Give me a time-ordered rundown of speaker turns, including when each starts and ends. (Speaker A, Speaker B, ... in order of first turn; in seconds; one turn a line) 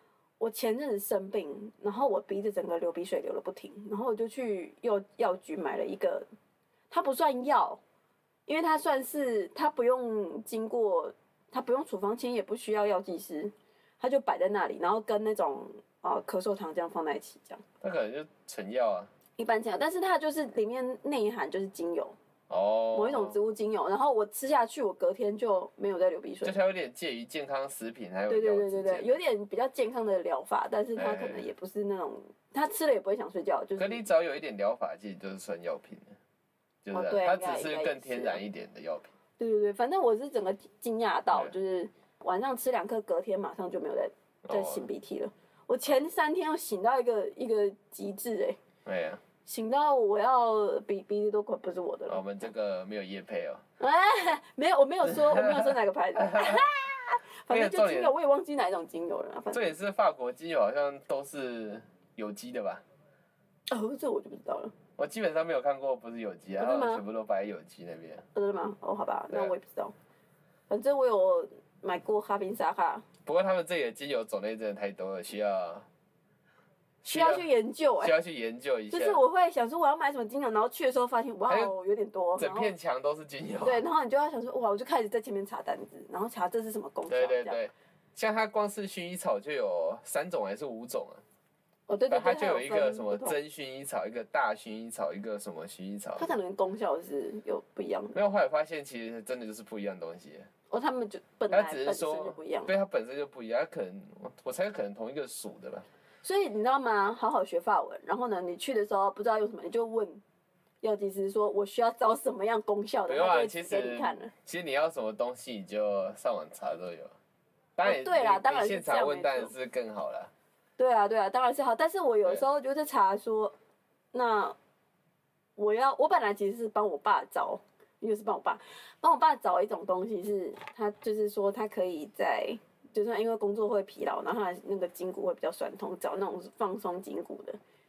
Speaker A: 0.4-6.2
Speaker A: 6.9-7.8
Speaker A: 8.5-17.6
Speaker B: 17.8-19.1
Speaker A: 19.4-22.1
Speaker B: 22.5-23.4
Speaker A: 22.9-26.6
Speaker B: 26.4-29.2
Speaker A: 28.3-34.0
Speaker B: 30.9-31.4
Speaker B: 33.8-36.2
Speaker B: 36.8-39.1
Speaker A: 36.9-38.4
Speaker A: 39.4-48.6
Speaker B: 44.4-44.9
Speaker B: 48.8-49.2
Speaker A: 49.4-52.2
Speaker B: 52.1-53.6
Speaker A: 53.8-59.8
Speaker B: 55.0-56.6
Speaker B: 57.5-58.1
Speaker B: 59.5-62.8
Speaker A: 63.7-64.7
Speaker B: 65.0-68.2
Speaker A: 66.6-67.0
Speaker A: 68.3-69.9
Speaker A: 70.7-73.0
Speaker B: 73.2-75.9
Speaker B: 77.0-77.5
Speaker A: 77.0-78.1
Speaker B: 78.0-79.2
Speaker A: 78.9-82.7
Speaker B: 82.4-83.8
Speaker A: 83.6-87.6
Speaker B: 87.1-91.2
Speaker A: 91.9-93.4
Speaker B: 92.1-96.4
Speaker A: 96.2-98.2
Speaker B: 98.1-100.5
Speaker A: 100.7-102.7
Speaker B: 101.5-105.9
Speaker A: 106.2-110.2
Speaker A: 110.8-114.3
Speaker B: 113.1-117.1
Speaker B: 117.8-120.3
Speaker A: 117.8-119.5
Speaker A: 120.8-123.5
Speaker A: 124.1-124.5
Speaker A: 125.6-137.6